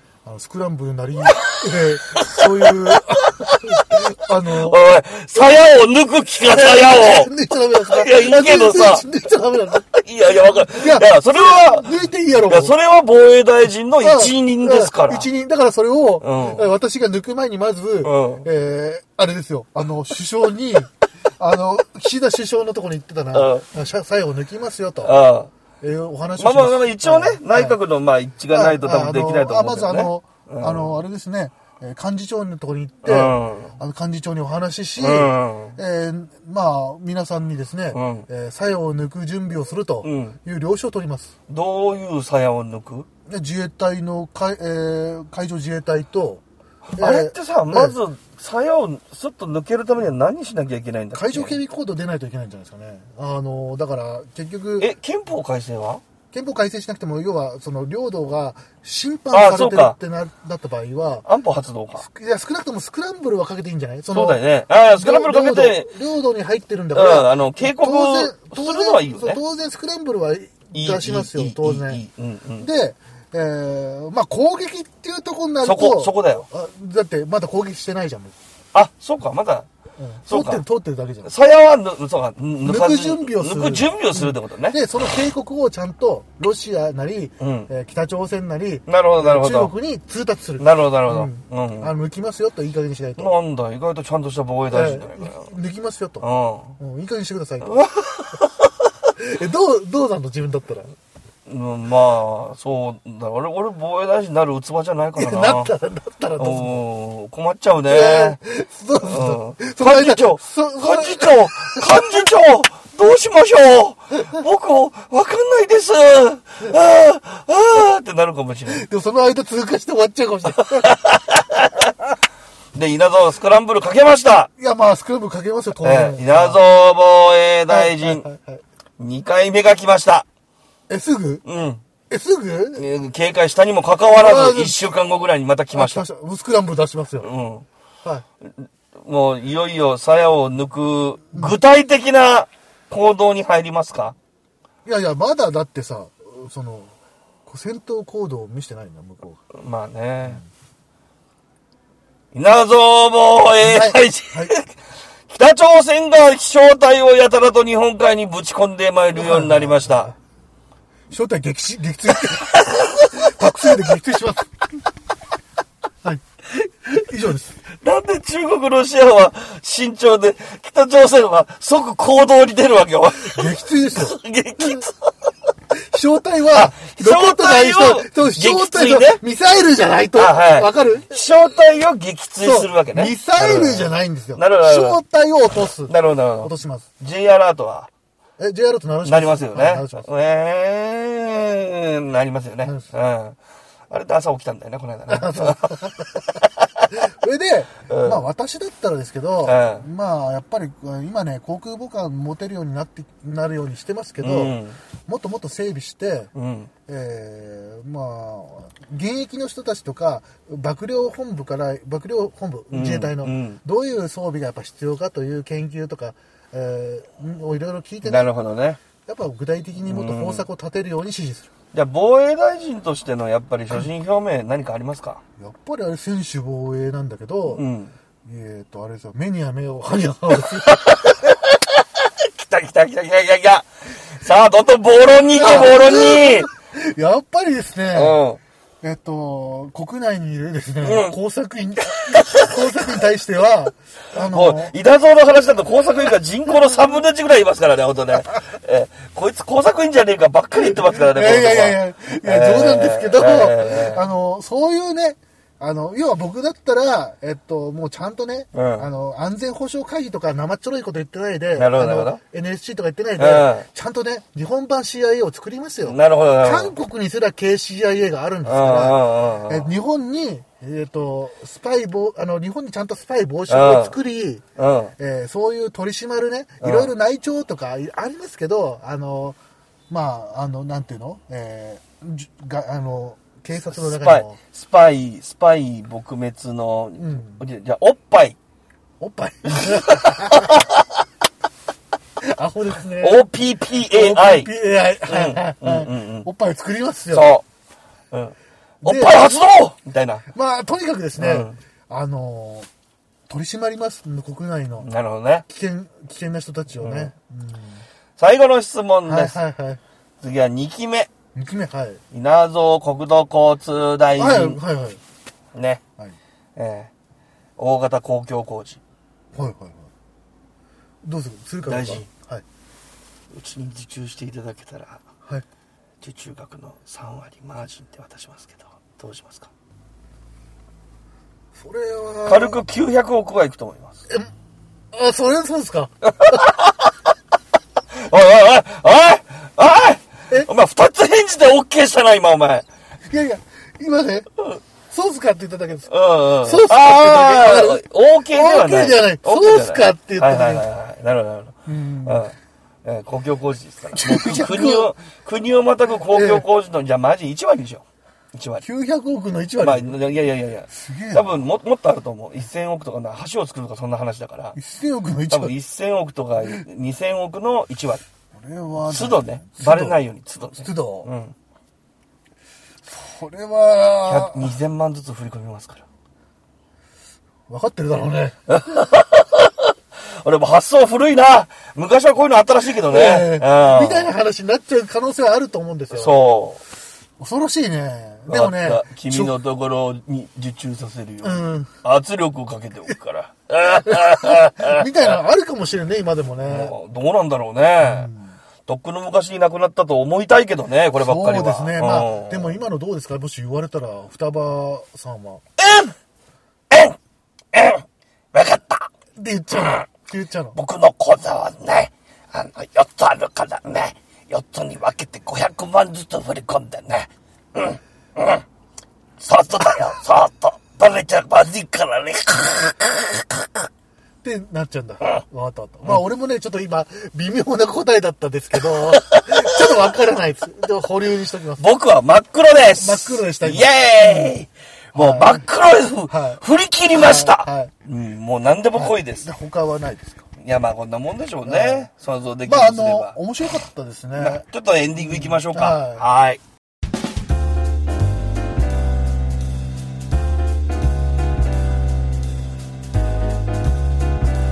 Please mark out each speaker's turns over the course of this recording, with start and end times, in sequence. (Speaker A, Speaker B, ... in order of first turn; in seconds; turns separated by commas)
Speaker A: 0.2-4.8, Speaker B: 1.3-9.1, Speaker A: 6.5-9.8, Speaker B: 9.8-11.9, Speaker A: 10.7-12.8, Speaker B: 12.5-15.3, Speaker A: 14.0-25.2, Speaker B: 16.2-16.7, Speaker B: 18.0-18.5, Speaker B: 23.3-23.7, Speaker B: 25.0-25.5, Speaker A: 25.8-27.8, Speaker B: 26.4-31.0, Speaker A: 28.5-41.3, Speaker B: 33.0-33.8, Speaker B: 35.0-35.8, Speaker B: 37.9-38.3, Speaker B: 40.0-40.4, Speaker B: 41.5-43.1, Speaker A: 43.3-46.4, Speaker B: 46.9-51.6, Speaker A: 47.0-48.0, Speaker A: 51.1-54.9, Speaker B: 54.8-56.0, Speaker A: 56.3-61.3, Speaker B: 59.3-60.0, Speaker B: 61.2-62.0, Speaker A: 62.0-72.0, Speaker B: 64.1-65.9, Speaker B: 66.9-69.4, Speaker B: 70.7-72.7, Speaker A: 72.6-78.4, Speaker B: 75.6-76.5, Speaker B: 78.7-79.7, Speaker A: 80.0-81.3, Speaker B: 80.2-80.6, Speaker B: 81.2-84.8, Speaker A: 82.6-93.3, Speaker B: 87.4-87.7, Speaker B: 88.9-89.7, Speaker B: 90.6-91.9, Speaker B: 93.2-95.5, Speaker A: 94.7-96.2, Speaker B: 96.2-96.8, Speaker A: 96.8-97.8, Speaker B: 97.6-98.5, Speaker A: 99.2-100.9, Speaker B: 101.5-105.7, Speaker A: 105.2-106.8, Speaker B: 106.4-108.4, Speaker A: 107.9-112.3, Speaker B: 109.0-118.9, Speaker A: 118.7-121.0, Speaker B: 120.8-121.9, Speaker B: 122.7-124.5, Speaker A: 124.6-126.6, Speaker B: 125.8-128.2, Speaker A: 127.7-128.6, Speaker B: 129.0-130.2, Speaker A: 130.9-131.4, Speaker B: 131.4-131.8, Speaker A: 132.1-132.9, Speaker B: 132.8-136.1, Speaker A: 134.1-134.9, Speaker A: 135.7-137.3, Speaker B: 137.2-137.7, Speaker B: 138.6-144.2, Speaker A: 144.8-146.9, Speaker A: 147.4-149.4, Speaker B: 149.5-150.4, Speaker B: 152.3-154.7, Speaker A: 153.6-154.5, Speaker B: 155.3-160.1, Speaker A: 159.1-160.2, Speaker A: 161.1-164.5, Speaker B: 162.3-163.6, Speaker A: 166.8-167.6, Speaker B: 167.8-175.3, Speaker A: 173.2-174.8, Speaker A: 175.7-181.1, Speaker B: 176.5-179.2, Speaker B: 180.1-185.0, Speaker A: 182.4-186.9, Speaker B: 185.9-187.9, Speaker A: 188.4-190.1, Speaker B: 189.0-193.4, Speaker B: 193.9-196.6, Speaker A: 195.1-206.3, Speaker B: 197.9-198.2, Speaker B: 199.4-199.9, Speaker B: 204.2-204.8, Speaker B: 206.3-206.7, Speaker A: 206.9-218.3, Speaker B: 212.7-213.6, Speaker B: 218.0-218.8, Speaker A: 219.0-221.5, Speaker B: 219.8-220.4, Speaker B: 221.7-225.2, Speaker A: 225.4-227.6, Speaker B: 227.5-227.9, Speaker A: 228.2-231.1, Speaker B: 230.7-236.5, Speaker A: 235.3-238.2, Speaker B: 237.9-238.4, Speaker A: 238.8-244.7, Speaker B: 240.8-241.2, Speaker B: 241.9-242.5, Speaker B: 244.2-254.0, Speaker A: 250.6-274.4, Speaker B: 258.5-258.9, Speaker B: 261.5-262.2, Speaker B: 263.2-263.7, Speaker B: 265.8-266.7, Speaker B: 268.4-269.7, Speaker B: 273.5-273.9, Speaker B: 274.6-274.9, Speaker A: 275.0-279.4, Speaker B: 276.6-276.9, Speaker A: 279.9-284.4, Speaker B: 283.7-288.4, Speaker A: 287.0-287.4, Speaker A: 289.0-290.6, Speaker B: 289.4-290.9, Speaker A: 292.2-293.2, Speaker B: 293.0-294.5, Speaker A: 293.7-297.3, Speaker B: 295.1-296.3, Speaker B: 297.1-297.4, Speaker B: 298.1-300.2, Speaker A: 298.8-299.2, Speaker A: 300.3-302.7, Speaker B: 301.2-301.6, Speaker A: 303.3-304.9, Speaker B: 304.8-305.4, Speaker A: 305.5-307.8, Speaker B: 306.8-307.1, Speaker B: 308.2-309.3, Speaker A: 309.1-309.8, Speaker B: 310.2-311.1, Speaker A: 311.3-312.0, Speaker B: 312.1-314.6, Speaker A: 314.2-315.0, Speaker B: 315.5-315.8, Speaker B: 316.6-316.9, Speaker B: 317.6-318.8, Speaker A: 319.3-319.9, Speaker A: 321.0-322.4, Speaker B: 321.6-322.1, Speaker B: 323.3-325.0, Speaker B: 326.0-329.5, Speaker A: 331.5-332.6, Speaker B: 332.2-334.0, Speaker A: 334.9-336.4, Speaker B: 336.2-336.7, Speaker B: 338.0-342.6, Speaker A: 343.1-344.3, Speaker A: 344.9-350.6, Speaker B: 345.9-358.6, Speaker A: 351.6-352.3, Speaker A: 353.9-354.9, Speaker A: 356.1-356.4, Speaker A: 358.6-360.0, Speaker B: 359.6-364.6, Speaker A: 360.7-361.3, Speaker A: 364.5-365.5, Speaker B: 365.3-368.0, Speaker A: 368.3-371.1, Speaker B: 368.8-371.3, Speaker A: 372.9-374.5, Speaker B: 374.1-375.8, Speaker A: 377.5-378.4, Speaker B: 378.5-384.1, Speaker A: 382.9-386.1, Speaker B: 385.9-386.6, Speaker A: 387.2-389.4, Speaker B: 388.3-395.1, Speaker A: 391.2-391.7, Speaker A: 393.9-396.8, Speaker B: 396.4-398.1, Speaker A: 397.8-398.4, Speaker B: 398.6-402.6, Speaker A: 400.9-405.4, Speaker B: 405.6-405.9, Speaker B: 406.7-407.0, Speaker B: 407.5-408.9, Speaker A: 409.1-410.6, Speaker B: 410.5-418.4, Speaker B: 419.2-423.5, Speaker A: 424.2-431.7, Speaker B: 428.8-429.7, Speaker B: 431.6-439.3, Speaker A: 432.8-434.3, Speaker A: 434.9-435.4, Speaker A: 436.1-437.7, Speaker A: 438.7-440.2, Speaker B: 440.4-443.2, Speaker A: 441.4-441.9, Speaker A: 442.4-444.4, Speaker B: 444.1-446.4, Speaker A: 445.0-446.0